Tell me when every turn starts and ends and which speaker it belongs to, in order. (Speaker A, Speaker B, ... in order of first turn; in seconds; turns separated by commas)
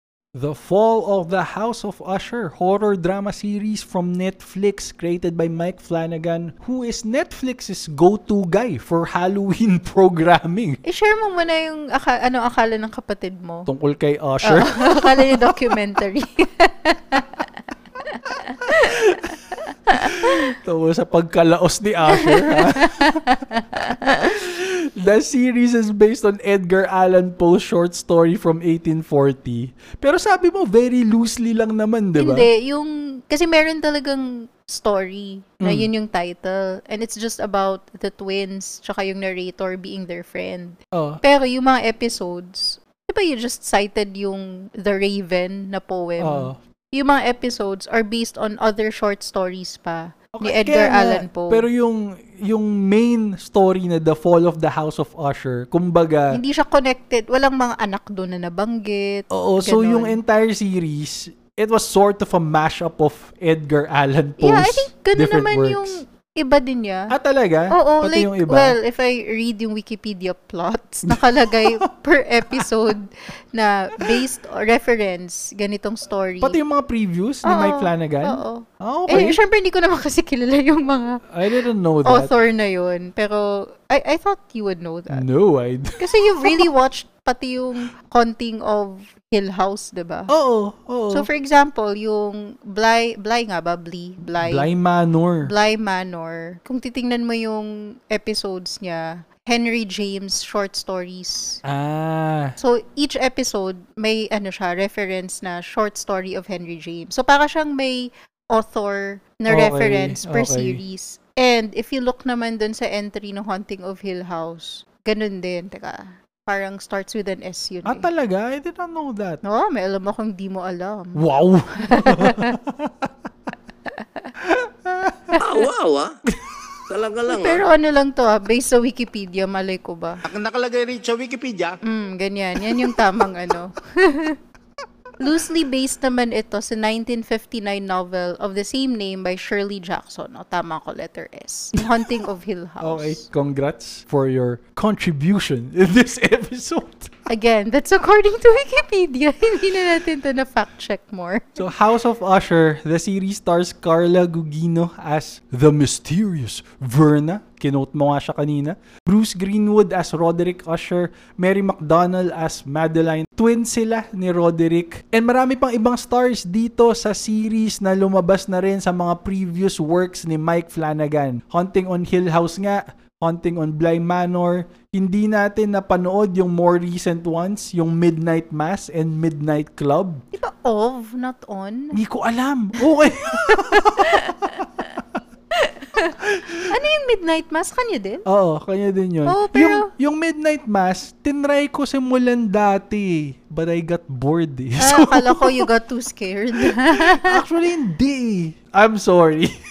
Speaker A: 0.3-10.8, Speaker B: 10.8-13.7, Speaker A: 13.7-15.8, Speaker B: 14.4-17.4, Speaker B: 18.1-19.0, Speaker A: 18.8-19.2, Speaker B: 19.9-20.4, Speaker A: 20.0-23.2, Speaker B: 22.1-24.3, Speaker A: 24.1-32.5, Speaker B: 32.2-51.7, Speaker A: 35.6-35.9, Speaker A: 40.9-41.2, Speaker A: 46.2-46.6, Speaker A: 50.3-56.4, Speaker B: 56.3-60.2, Speaker A: 59.3-66.0, Speaker B: 64.4-67.1, Speaker A: 67.1-68.8, Speaker B: 67.7-76.6, Speaker A: 71.1-71.8, Speaker A: 76.4-79.4, Speaker B: 77.4-81.2, Speaker A: 81.3-82.3, Speaker B: 82.0-85.2, Speaker A: 85.1-86.7, Speaker B: 86.0-90.3, Speaker A: 90.3-91.3, Speaker B: 91.1-94.7, Speaker A: 94.4-95.5, Speaker B: 95.4-101.6, Speaker A: 101.6-102.5, Speaker B: 102.6-118.1, Speaker A: 109.5-110.8, Speaker A: 117.8-119.4, Speaker B: 119.4-122.6, Speaker A: 121.1-123.1, Speaker B: 123.9-124.3, Speaker A: 124.4-125.3, Speaker B: 125.3-125.6, Speaker C: 125.4-126.1, Speaker C: 126.9-127.6, Speaker B: 127.3-130.2, Speaker C: 130.2-131.7, Speaker B: 131.8-134.4, Speaker A: 132.7-133.0, Speaker B: 135.2-143.2, Speaker A: 141.8-142.1, Speaker A: 142.8-147.1, Speaker B: 147.3-151.6, Speaker A: 151.6-180.2, Speaker B: 180.3-182.0, Speaker A: 181.9-184.5, Speaker B: 183.3-184.9, Speaker B: 185.5-186.1, Speaker A: 186.2-186.7, Speaker B: 186.7-188.2, Speaker A: 188.2-195.7, Speaker B: 189.2-189.9, Speaker B: 194.8-197.4, Speaker A: 196.6-199.5